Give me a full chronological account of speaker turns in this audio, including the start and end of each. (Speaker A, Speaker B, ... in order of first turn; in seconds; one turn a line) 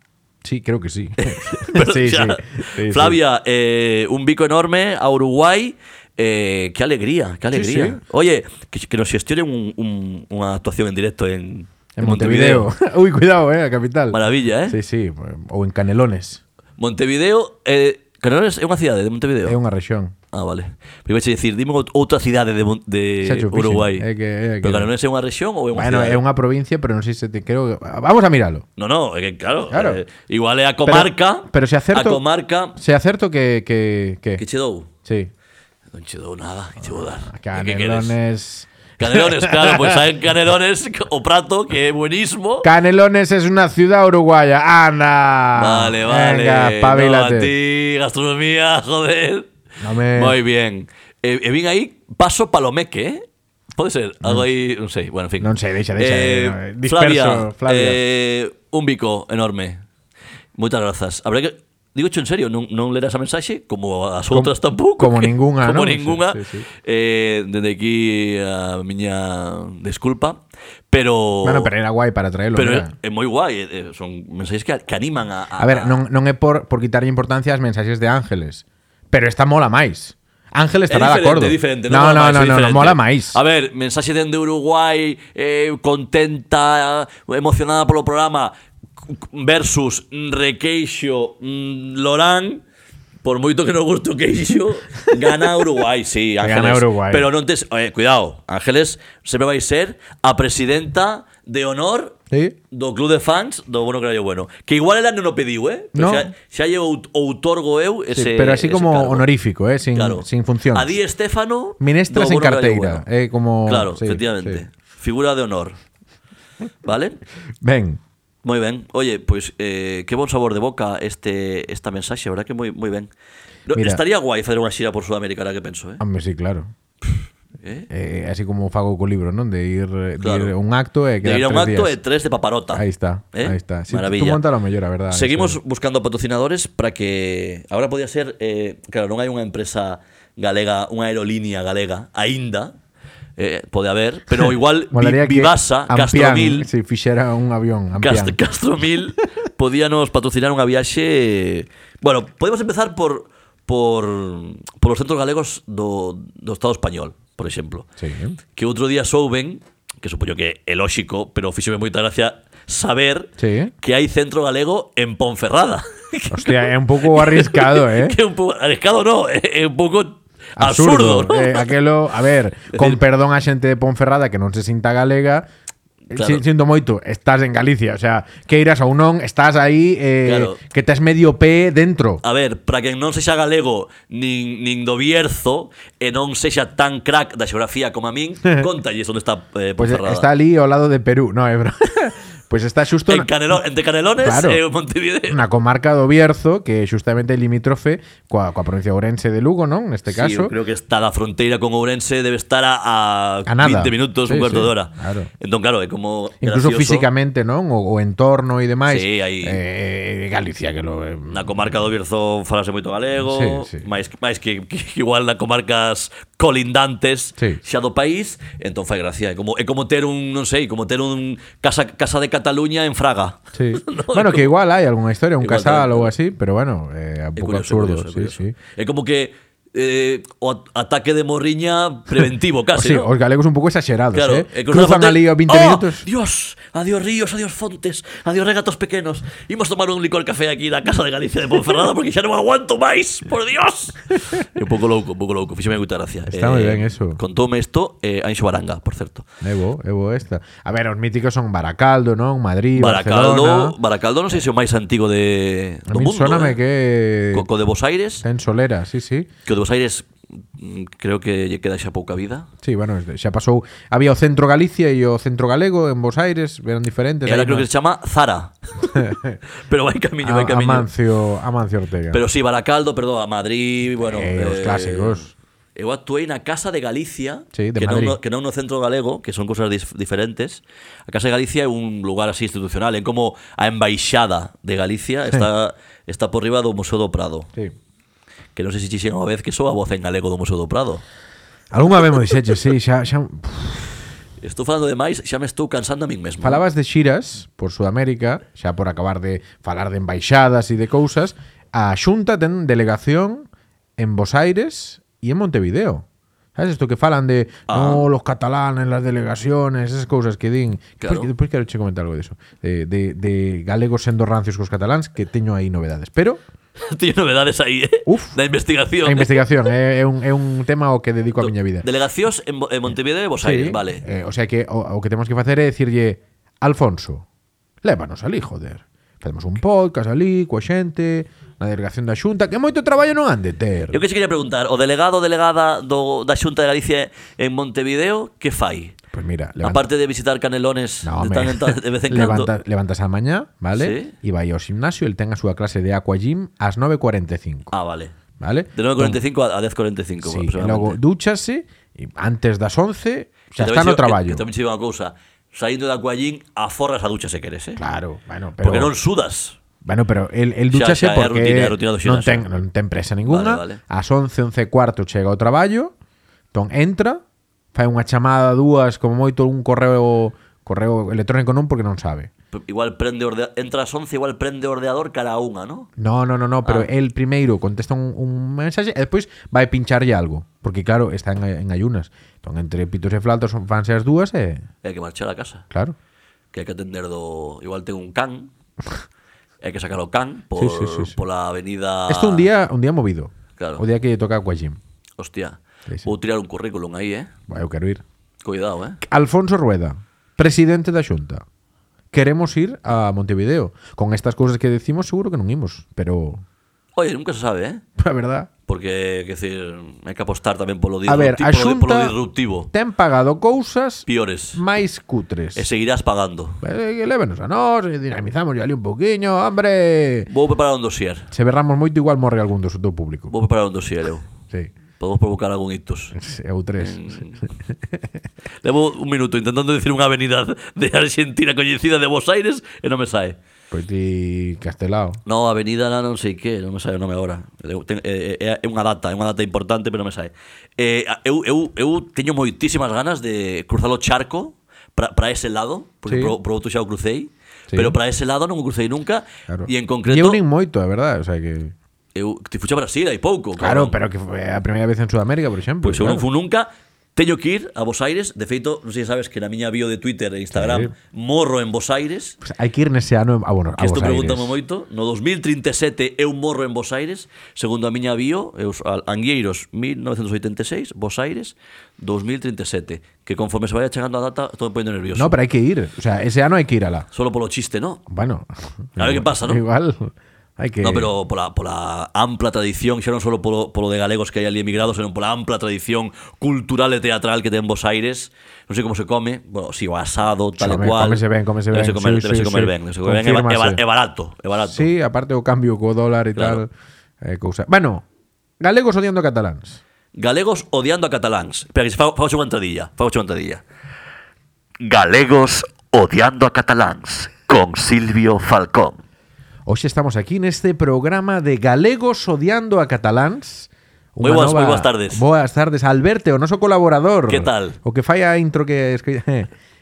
Speaker A: 0.4-3.2
Speaker B: 1.2-12.7
Speaker A: 7.5-8.0
Speaker A: 11.9-16.4
Speaker B: 14.1-14.8
Speaker B: 16.8-19.6
Speaker A: 19.4-20.1
Speaker B: 20.3-24.1
Speaker A: 23.2-24.9
Speaker B: 24.6-26.2
Speaker A: 25.7-28.6
Speaker B: 28.8-32.8
Speaker A: 29.7-30.0
Speaker A: 30.9-32.2
Speaker A: 32.7-34.4
Speaker B: 34.4-34.9
Speaker A: 35.0-35.3
Speaker B: 35.9-38.1
Speaker A: 37.2-40.0
Speaker B: 39.0-42.7
Speaker A: 42.6-47.5
Speaker B: 45.6-49.5
Speaker A: 49.8-50.4
Speaker B: 50.1-59.8
Speaker A: 55.4-58.0
Speaker B: 60.6-71.7
Speaker A: 64.3-66.7
Speaker A: 71.4-72.9
Speaker B: 72.5-76.0
Speaker A: 75.6-83.4
Speaker B: 80.9-88.5
Speaker B: 89.1-92.6
Speaker B: 93.2-102.2
Speaker A: 96.4-97.3
Speaker A: 102.3-102.6
Speaker B: 102.7-109.3
Speaker A: 105.9-106.3
Speaker A: 108.1-111.0
Speaker B: 109.9-113.0
Speaker A: 111.8-114.6
Speaker B: 113.7-115.8
Speaker B: 116.8-117.2
Speaker A: 117.6-118.0
Speaker B: 118.4-123.1
Speaker B: 123.7-126.0
Speaker A: 123.8-124.0
Speaker A: 126.0-126.7
Speaker B: 127.6-127.9
Speaker A: 127.9-132.0
Speaker B: 130.2-130.5
Speaker B: 131.2-134.4
Speaker A: 132.7-135.6
Speaker B: 135.1-142.8
Speaker B: 143.4-146.7
Speaker A: 144.9-148.4
Speaker B: 148.0-157.9
Speaker A: 158.0-158.4
Speaker B: 158.6-171.7
Speaker A: 163.4-163.7
Speaker A: 166.3-168.2
Speaker A: 170.6-175.5
Speaker B: 172.7-173.0
Speaker A: 176.1-182.2
Speaker B: 176.1-176.4
Speaker B: 180.2-180.6
Speaker B: 182.2-190.3
Speaker A: 189.8-193.3
Speaker B: 193.1-195.4
Speaker A: 194.2-194.6
Speaker A: 195.3-200.5
Speaker B: 200.1-207.1
Speaker A: 203.4-205.3
Speaker A: 206.4-211.5
Speaker B: 208.9-209.6
Speaker B: 211.3-224.6
Speaker A: 213.2-213.8
Speaker A: 223.5-228.6
Speaker B: 225.4-226.1
Speaker B: 227.4-233.1
Speaker A: 232.8-236.1
Speaker B: 234.1-249.3
Speaker A: 246.3-247.2
Speaker A: 249.4-253.8
Speaker B: 252.8-256.6
Speaker A: 255.9-257.5
Speaker B: 257.3-258.2
Speaker A: 258.2-259.3
Speaker B: 259.4-262.5
Speaker A: 262.6-267.7
Speaker B: 267.3-269.0
Speaker A: 268.9-269.4
Speaker B: 269.7-270.9
Speaker A: 270.2-272.2
Speaker B: 272.1-287.5
Speaker A: 274.1-275.3
Speaker A: 277.5-278.2
Speaker B: 288.6-291.0
Speaker A: 291.7-294.0
Speaker B: 294.4-296.6
Speaker A: 296.4-303.5
Speaker A: 304.0-306.0
Speaker A: 306.6-316.4
Speaker B: 307.7-308.1
Speaker B: 311.0-311.3
Speaker B: 316.8-319.4
Speaker A: 318.1-318.4
Speaker A: 319.0-321.9
Speaker B: 321.4-324.0
Speaker A: 323.4-327.2
Speaker A: 327.8-334.0
Speaker B: 333.9-338.9
Speaker A: 339.1-339.8
Speaker B: 339.6-342.5
Speaker A: 341.0-347.7
Speaker B: 343.8-344.1
Speaker B: 347.7-348.1
Speaker A: 348.4-349.2
Speaker B: 348.8-351.0
Speaker A: 350.2-354.4
Speaker B: 353.5-357.8
Speaker A: 357.8-358.9
Speaker B: 358.6-359.6
Speaker A: 359.8-365.9
Speaker B: 360.7-362.5
Speaker B: 363.2-363.8
Speaker A: 366.5-367.2
Speaker A: 367.7-372.3
Speaker B: 372.5-375.9
Speaker A: 376.0-384.6
Speaker B: 376.6-376.9
Speaker B: 384.8-385.6
Speaker B: 386.5-388.5
Speaker B: 389.6-392.5
Speaker A: 390.5-391.2
Speaker A: 392.1-394.8
Speaker B: 393.6-393.8
Speaker B: 395.2-397.3
Speaker A: 397.5-398.0
Speaker B: 398.4-399.0
Speaker A: 399.0-401.4
Speaker A: 402.1-406.4
Speaker B: 406.9-407.8
Speaker A: 408.0-408.5
Speaker B: 408.7-412.7
Speaker A: 411.1-412.2
Speaker A: 412.7-415.6
Speaker B: 414.1-414.6
Speaker B: 415.5-416.6
Speaker A: 416.6-420.3
Speaker B: 420.3-421.3
Speaker A: 421.3-423.3
Speaker B: 423.3-424.2
Speaker B: 425.0-426.1
Speaker A: 426.1-427.2
Speaker B: 426.8-427.4
Speaker B: 428.6-433.4
Speaker A: 433.7-435.2
Speaker B: 435.2-450.4
Speaker A: 446.1-446.4
Speaker A: 447.7-448.0
Speaker A: 449.5-451.7
Speaker B: 452.1-454.0
Speaker A: 453.6-456.2
Speaker B: 455.8-462.4
Speaker A: 460.5-460.9
Speaker A: 462.4-464.6
Speaker B: 463.8-475.4
Speaker A: 475.1-477.1
Speaker B: 477.1-478.0
Speaker A: 478.1-481.1
Speaker B: 479.0-479.6
Speaker B: 480.8-494.9
Speaker A: 490.6-493.8
Speaker A: 494.6-496.7
Speaker B: 496.4-496.6
Speaker A: 497.2-498.0
Speaker A: 498.6-499.8
Speaker B: 500.1-503.6
Speaker B: 504.8-509.0
Speaker A: 509.6-519.5
Speaker B: 514.2-515.2
Speaker B: 517.3-517.8